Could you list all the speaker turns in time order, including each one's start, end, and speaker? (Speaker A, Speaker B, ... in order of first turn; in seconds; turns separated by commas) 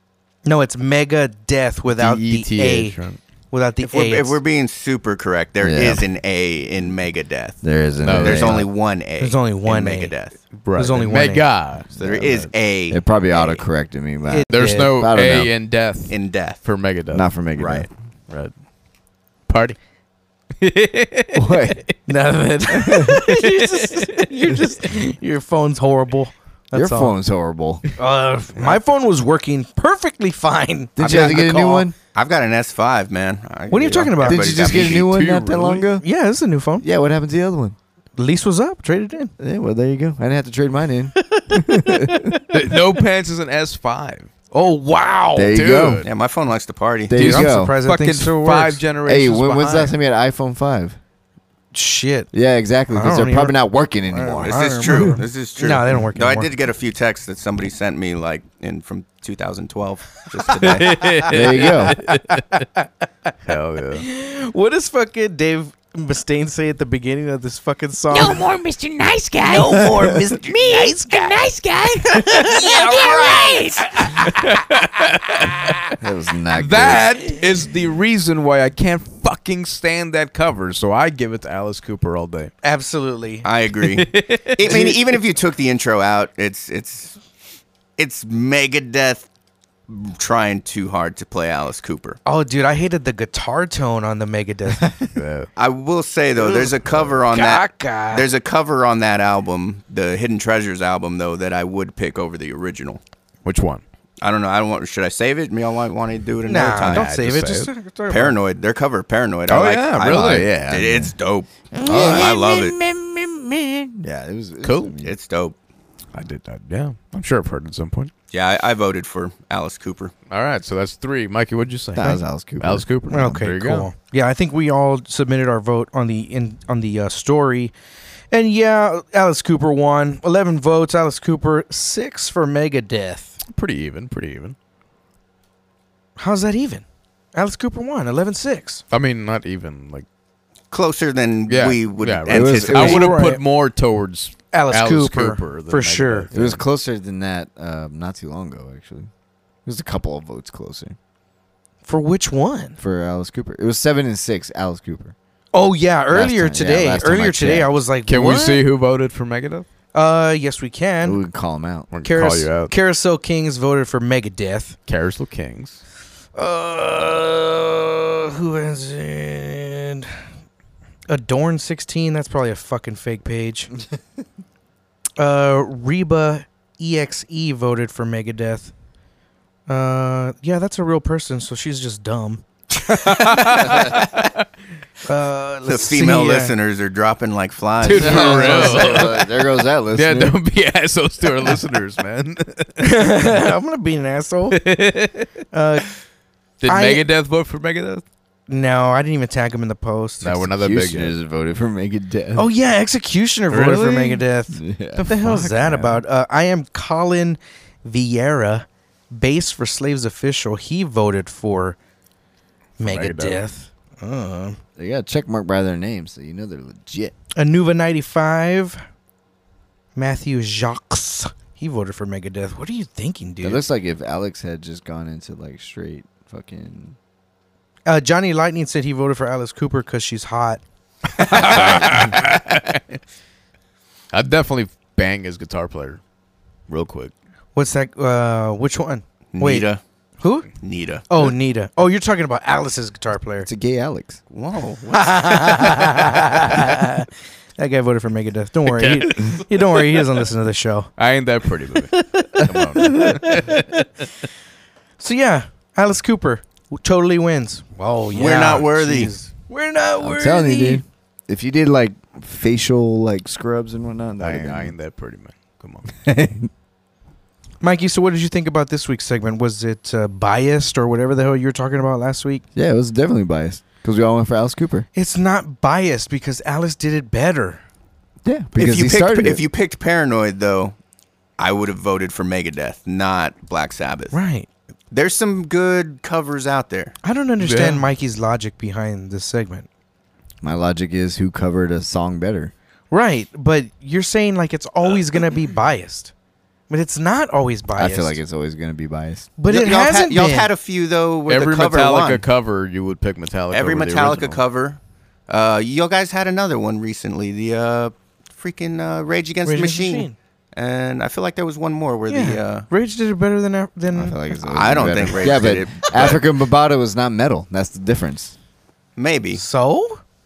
Speaker A: 0.5-3.0, Speaker B: 1.9-3.2, Speaker A: 3.5-4.4, Speaker C: 3.8-10.4, Speaker D: 5.6-6.1, Speaker D: 7.6-8.7, Speaker B: 8.0-8.7, Speaker A: 9.2-10.1, Speaker B: 10.5-12.5, Speaker A: 10.7-11.5, Speaker D: 11.9-15.5, Speaker C: 11.9-13.4, Speaker A: 14.3-14.9, Speaker B: 14.5-18.5, Speaker C: 16.1-16.6, Speaker D: 17.1-17.9, Speaker B: 19.5-19.8, Speaker B: 20.6-21.9, Speaker D: 21.4-21.8, Speaker A: 22.1-27.2, Speaker B: 23.1-24.2, Speaker D: 26.7-27.8, Speaker A: 28.0-31.9, Speaker D: 31.0-32.0, Speaker C: 31.1-31.5, Speaker C: 32.1-35.2, Speaker A: 33.7-34.5, Speaker D: 34.2-36.0, Speaker B: 34.5-35.9, Speaker A: 36.0-36.9, Speaker D: 36.8-37.8, Speaker A: 38.2-39.3, Speaker D: 39.4-42.4, Speaker A: 41.2-42.4, Speaker B: 42.5-44.3, Speaker A: 44.5-45.6, Speaker D: 45.4-46.1, Speaker B: 45.5-46.1, Speaker C: 46.0-47.2, Speaker D: 47.1-47.8, Speaker B: 47.1-49.9, Speaker A: 47.2-48.8, Speaker D: 49.0-51.0, Speaker A: 51.7-52.3, Speaker D: 52.3-55.0, Speaker A: 52.9-53.6, Speaker A: 54.1-56.5, Speaker C: 54.4-61.1, Speaker B: 60.7-62.4, Speaker A: 61.0-62.8, Speaker D: 61.3-62.0, Speaker B: 63.5-64.0, Speaker A: 64.0-68.5, Speaker E: 68.1-73.9, Speaker A: 69.4-71.5, Speaker A: 72.1-74.3, Speaker B: 74.0-76.0, Speaker D: 76.0-77.1, Speaker B: 76.5-82.5, Speaker A: 82.6-83.5, Speaker C: 83.4-87.2, Speaker B: 83.9-85.0, Speaker C: 88.0-89.3, Speaker C: 89.9-92.2, Speaker A: 92.2-94.9, Speaker B: 95.1-95.5, Speaker C: 95.6-103.0, Speaker A: 96.4-96.8, Speaker A: 97.3-98.3, Speaker B: 103.5-103.8, Speaker C: 104.2-107.1, Speaker A: 106.5-108.3, Speaker B: 106.7-107.7, Speaker C: 108.1-112.8, Speaker B: 109.5-110.6, Speaker D: 110.0-111.2, Speaker D: 111.8-115.2, Speaker B: 114.6-115.0, Speaker C: 115.0-115.6, Speaker B: 116.1-118.1, Speaker C: 118.3-120.1, Speaker B: 120.3-123.9, Speaker D: 122.0-123.4, Speaker A: 123.1-127.7, Speaker A: 128.3-133.4, Speaker B: 133.4-134.6, Speaker A: 136.2-138.8, Speaker B: 138.9-140.1, Speaker C: 140.7-143.1, Speaker B: 141.5-146.6, Speaker D: 142.3-143.2, Speaker A: 142.7-143.4, Speaker A: 144.5-146.3, Speaker D: 146.3-149.1, Speaker D: 149.7-151.0, Speaker A: 151.8-152.8, Speaker D: 152.8-155.2, Speaker A: 155.5-158.7, Speaker D: 156.1-157.8, Speaker B: 158.1-159.7, Speaker A: 159.9-161.2, Speaker D: 161.0-161.9, Speaker B: 161.9-162.7, Speaker A: 162.0-164.8, Speaker B: 164.9-165.8, Speaker A: 166.3-170.1, Speaker A: 171.1-173.7, Speaker A: 175.2-178.7, Speaker A: 179.7-184.0, Speaker B: 182.9-184.4, Speaker A: 185.1-186.5, Speaker C: 185.7-188.7, Speaker B: 187.8-189.3, Speaker A: 187.9-189.2, Speaker D: 187.9-190.4, Speaker B: 189.9-193.2, Speaker A: 192.8-194.6, Speaker B: 194.5-195.3, Speaker A: 195.5-195.9, Speaker B: 196.6-198.0, Speaker A: 196.7-197.1, Speaker A: 198.5-200.5, Speaker B: 200.2-201.2, Speaker D: 200.5-202.5, Speaker A: 202.3-211.8, Speaker B: 203.5-204.2, Speaker D: 204.5-205.1, Speaker B: 205.0-206.0, Speaker B: 212.8-213.4, Speaker A: 212.8-214.6, Speaker D: 214.8-217.1, Speaker A: 217.4-218.8, Speaker A: 220.0-223.6, Speaker D: 223.4-227.0, Speaker A: 227.9-230.6, Speaker B: 231.2-232.8, Speaker A: 231.2-232.1, Speaker B: 234.1-236.0, Speaker B: 236.7-237.1, Speaker A: 237.6-239.7, Speaker C: 239.3-239.8, Speaker A: 240.2-240.5, Speaker C: 240.6-241.1, Speaker A: 241.1-243.5, Speaker D: 243.4-244.2, Speaker C: 244.3-245.7, Speaker A: 244.9-247.1, Speaker A: 247.6-250.9, Speaker B: 248.7-250.1, Speaker B: 251.0-254.1, Speaker A: 252.2-253.1, Speaker A: 255.0-260.8, Speaker C: 258.1-259.1, Speaker D: 260.0-264.7, Speaker B: 264.2-266.0, Speaker D: 266.0-266.5, Speaker A: 267.6-272.4, Speaker D: 272.6-274.9, Speaker A: 274.9-277.6, Speaker D: 278.2-279.4, Speaker C: 278.6-280.8, Speaker C: 281.4-284.2, Speaker A: 284.1-284.5, Speaker C: 284.9-287.0, Speaker A: 287.0-289.7, Speaker B: 287.4-287.9, Speaker D: 290.4-292.5, Speaker A: 292.9-296.1, Speaker A: 296.7-298.2, Speaker D: 297.8-299.4, Speaker A: 299.4-300.5, Speaker C: 299.4-302.3, Speaker B: 301.3-304.4, Speaker C: 303.5-312.7, Speaker A: 309.4-310.1, Speaker A: 312.1-314.3, Speaker D: 313.9-318.4, Speaker C: 314.4-316.2, Speaker C: 319.0-319.4, Speaker A: 319.3-320.0